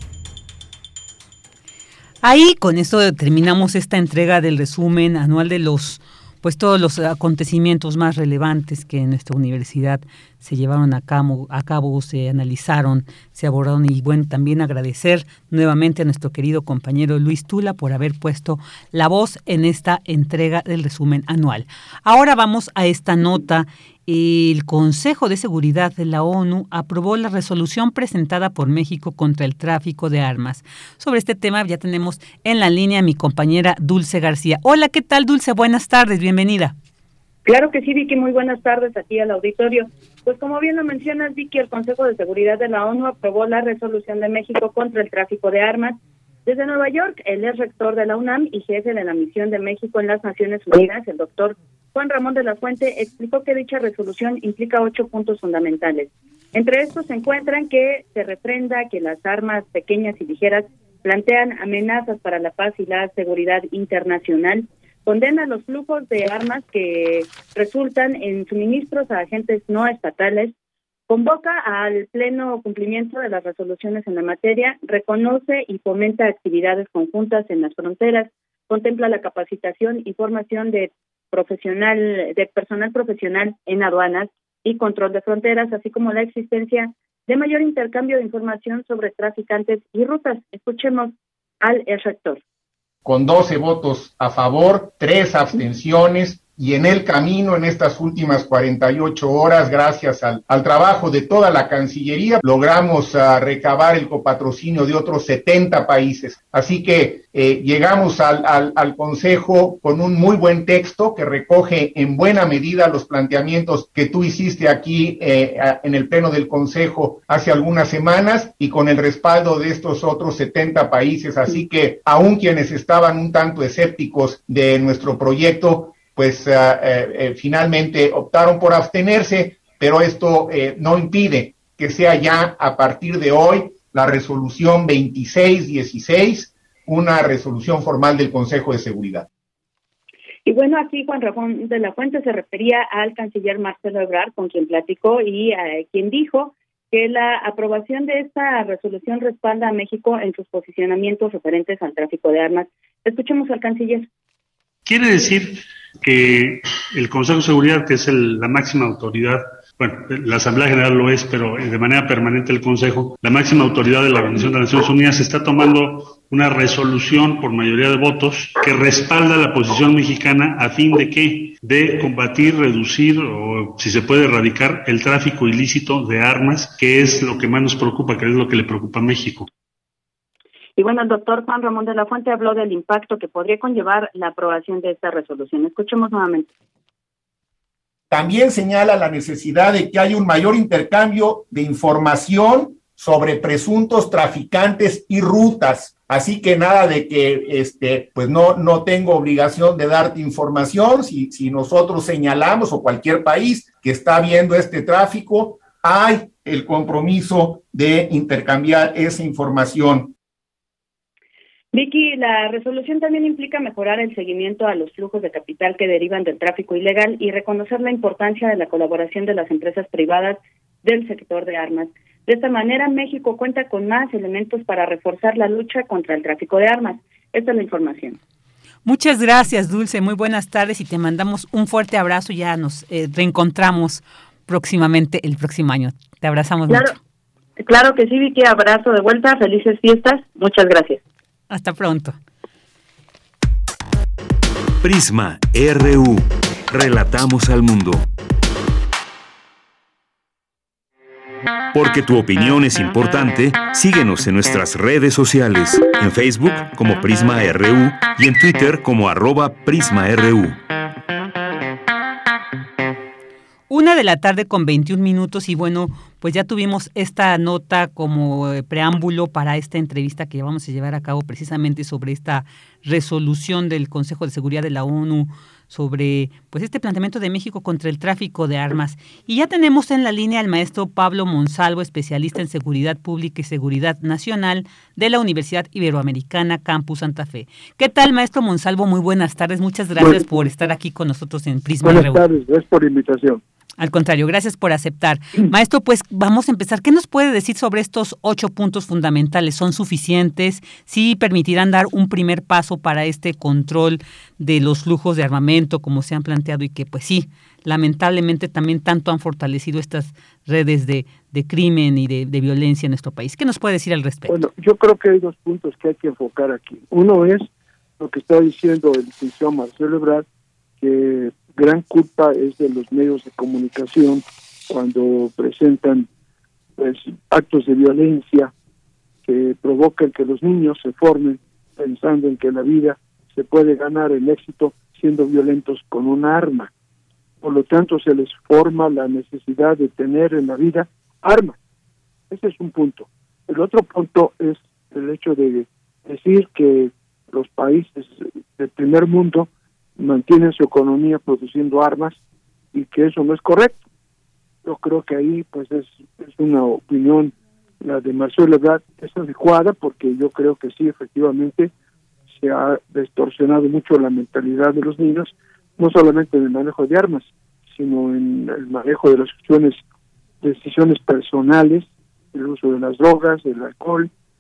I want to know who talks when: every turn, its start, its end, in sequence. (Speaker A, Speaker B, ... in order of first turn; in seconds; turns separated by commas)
Speaker A: 2.2-36.8, Speaker B: 37.5-70.5, Speaker B: 71.1-92.4, Speaker C: 93.0-139.3, Speaker B: 140.5-154.1, Speaker D: 154.9-179.5, Speaker B: 180.8-186.5, Speaker C: 188.1-210.1, Speaker B: 211.7-228.2, Speaker A: 228.8-236.9, Speaker B: 237.6-241.0, Speaker A: 241.5-242.2, Speaker E: 244.8-248.1, Speaker E: 251.7-260.6, Speaker A: 263.7-292.2, Speaker F: 290.0-290.3, Speaker F: 291.8-293.4, Speaker A: 293.8-314.4, Speaker F: 314.3-317.5, Speaker F: 318.0-320.3, Speaker F: 320.8-326.1, Speaker F: 326.8-328.5, Speaker F: 329.2-336.7, Speaker F: 337.4-341.6, Speaker F: 342.3-352.2, Speaker F: 352.7-353.8, Speaker F: 354.6-361.7, Speaker F: 362.3-369.8, Speaker F: 370.4-374.1